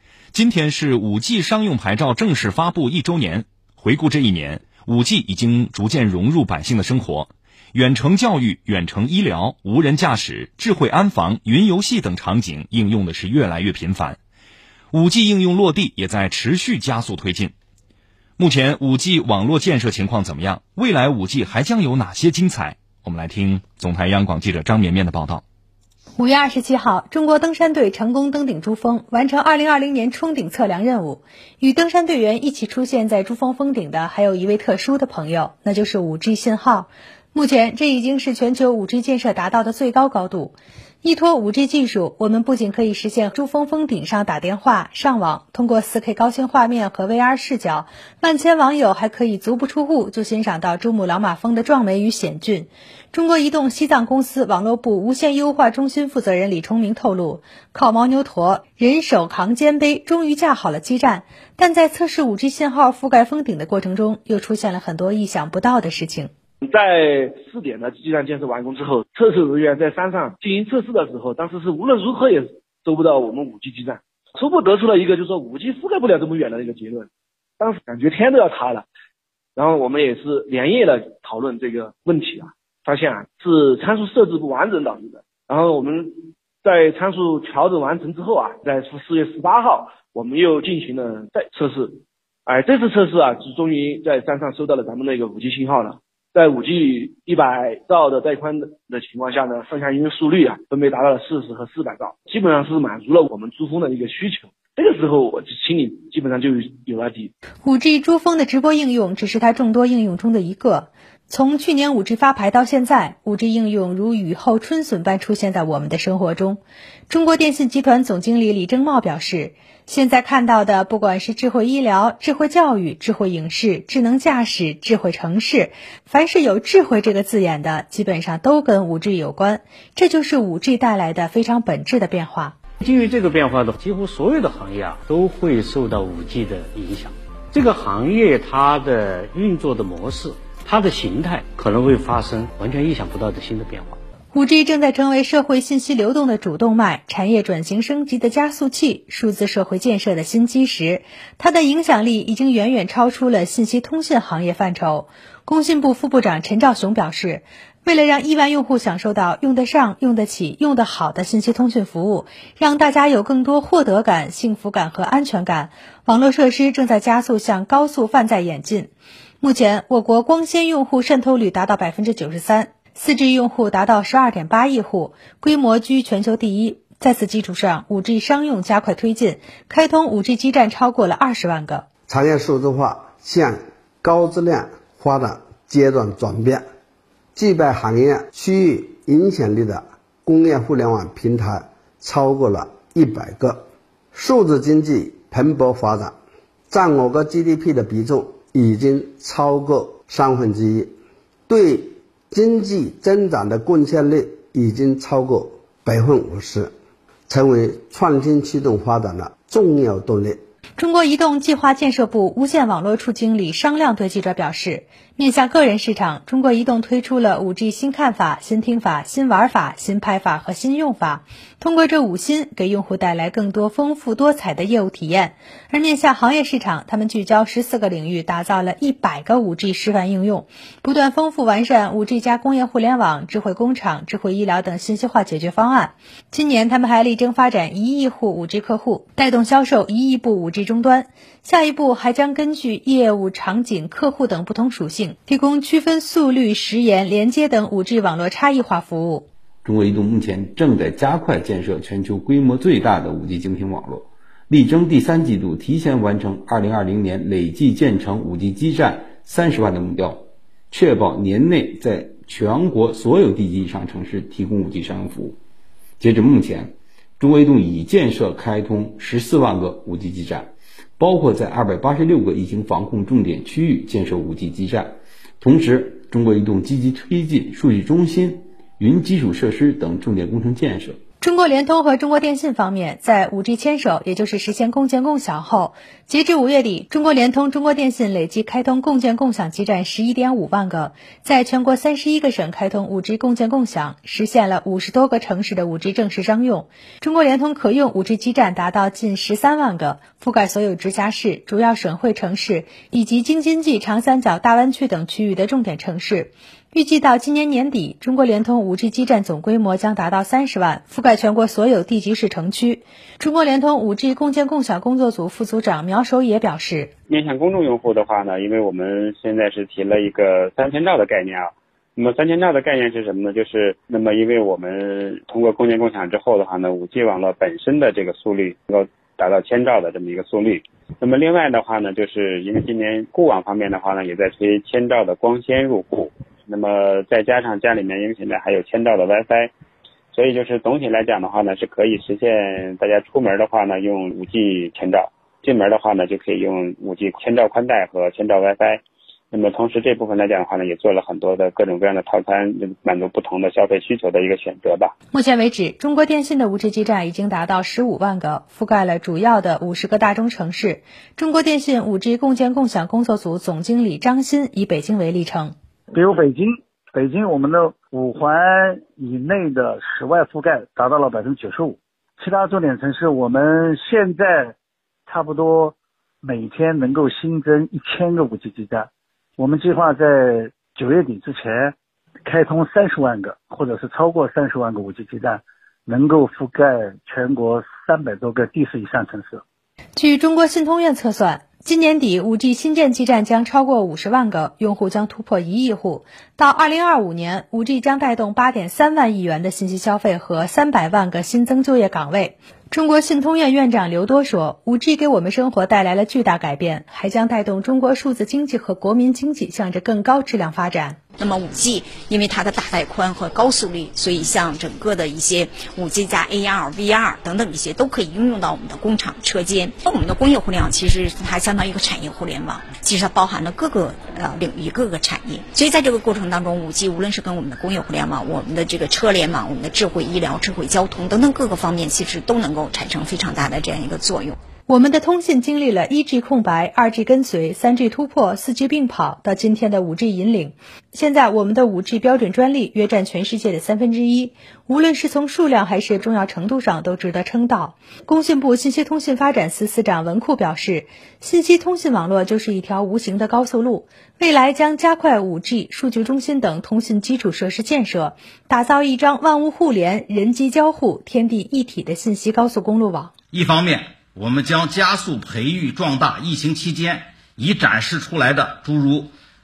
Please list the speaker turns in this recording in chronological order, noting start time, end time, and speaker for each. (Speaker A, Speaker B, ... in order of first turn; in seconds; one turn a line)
Speaker A: 0.3-14.2
Speaker A: 14.9-17.5
Speaker A: 18.4-25.4
Speaker B: 26.2-66.3
Speaker C: 66.6-77.1
Speaker C: 77.6-78.8
Speaker C: 79.5-107.3
Speaker B: 107.6-132.6
Speaker D: 132.8-143.9
Speaker B: 144.3-181.8
Speaker E: 182.1-186.6
Speaker E: 187.3-193.6
Speaker E: 194.1-196.1
Speaker E: 196.7-200.9
Speaker E: 201.5-206.7
Speaker E: 207.3-210.4
Speaker B: 210.8-249.3
Speaker F: 249.6-265.4
Speaker F: 266.0-281.0
Speaker B: 281.2-316.9
Speaker G: 317.1-339.5
Speaker G: 340.1-354.9
Speaker B: 355.1-365.5
Speaker H: 365.9-374.5
Speaker H: 375.1-389.4
Speaker B: 389.9-411.0
Speaker I: 411.2-434.3
Speaker B: 434.7-463.1
Speaker J: 463.3-469.1